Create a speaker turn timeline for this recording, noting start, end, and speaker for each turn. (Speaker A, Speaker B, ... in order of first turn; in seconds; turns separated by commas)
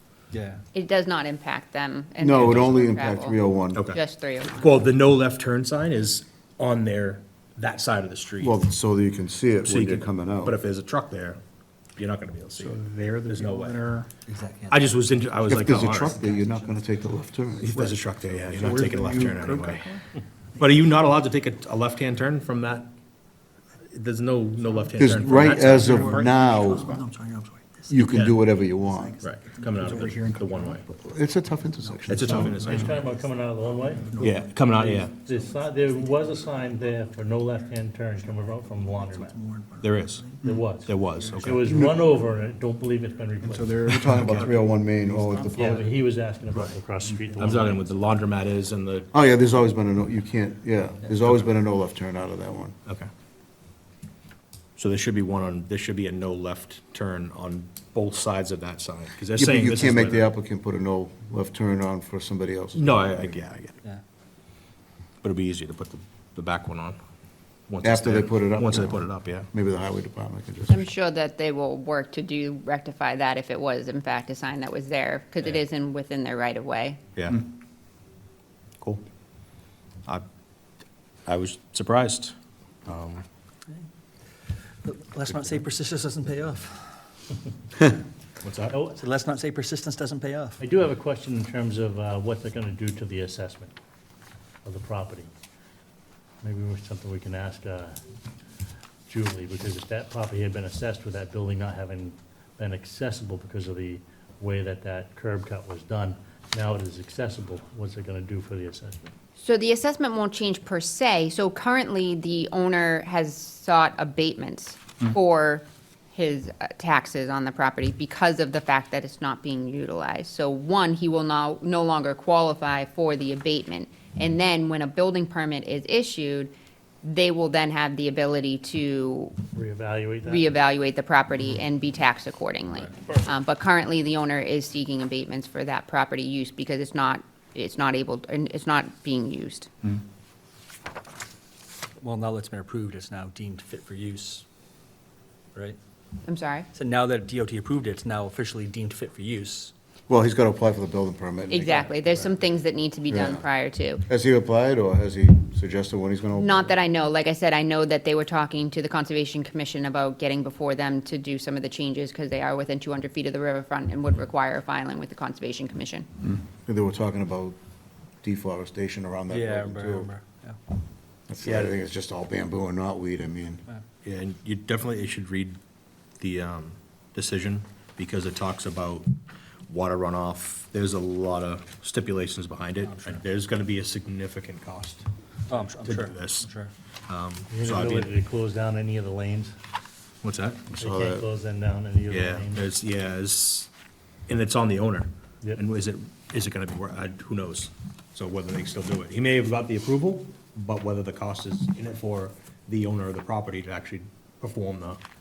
Speaker A: 0.3-0.6, Speaker B: 0.7-4.8, Speaker C: 2.2-3.8, Speaker D: 3.7-8.6, Speaker C: 8.4-10.6, Speaker D: 9.6-11.4, Speaker D: 12.0-13.8, Speaker E: 12.6-14.1, Speaker A: 14.3-16.9, Speaker D: 14.7-16.2, Speaker C: 15.5-18.0, Speaker D: 17.6-20.0, Speaker E: 18.6-20.0, Speaker C: 18.6-18.9, Speaker D: 20.6-22.9, Speaker D: 23.9-26.3, Speaker A: 24.9-30.8, Speaker C: 25.0-27.0, Speaker C: 27.9-29.2, Speaker D: 28.1-28.4, Speaker D: 29.2-30.9, Speaker C: 30.9-32.7, Speaker A: 31.8-36.7, Speaker D: 32.1-33.0, Speaker E: 32.5-33.0, Speaker F: 32.6-39.4, Speaker D: 34.2-35.1, Speaker A: 38.8-40.5, Speaker D: 39.8-40.3, Speaker F: 40.4-43.9, Speaker D: 40.8-41.7, Speaker C: 41.6-42.0, Speaker E: 43.5-44.5, Speaker C: 43.8-45.9, Speaker A: 45.1-45.5, Speaker F: 45.5-47.9, Speaker D: 47.4-49.1, Speaker C: 49.1-52.8, Speaker D: 54.8-60.3, Speaker C: 59.4-63.4, Speaker D: 62.7-63.8, Speaker D: 65.2-67.0, Speaker D: 67.7-69.5, Speaker C: 67.8-70.9, Speaker B: 70.7-77.0, Speaker D: 77.2-77.5, Speaker D: 81.3-82.3, Speaker D: 82.9-83.2, Speaker A: 84.8-87.1, Speaker D: 85.3-85.6, Speaker D: 88.4-88.8, Speaker F: 88.7-89.0, Speaker A: 89.0-90.6, Speaker F: 90.6-93.7, Speaker F: 94.7-95.3, Speaker F: 96.4-98.0, Speaker F: 99.1-109.0, Speaker B: 109.4-126.5, Speaker B: 127.0-129.5, Speaker F: 129.5-130.5, Speaker B: 130.2-139.7, Speaker A: 142.0-144.4, Speaker B: 146.2-146.7, Speaker A: 146.7-149.7, Speaker C: 150.1-152.0, Speaker B: 151.5-154.0, Speaker C: 153.1-153.4, Speaker C: 154.1-156.8, Speaker B: 156.4-166.1, Speaker C: 166.5-167.6, Speaker C: 168.2-170.1, Speaker A: 169.3-170.6, Speaker C: 171.3-173.6, Speaker D: 171.4-171.8, Speaker D: 174.0-175.6, Speaker D: 176.2-179.1, Speaker D: 179.7-185.1, Speaker A: 182.8-183.2, Speaker A: 185.5-186.7, Speaker D: 185.8-186.5, Speaker D: 187.1-188.1, Speaker F: 187.5-189.6, Speaker D: 190.2-190.7, Speaker C: 190.7-191.3, Speaker F: 190.8-192.6, Speaker D: 192.1-193.7, Speaker D: 194.3-205.0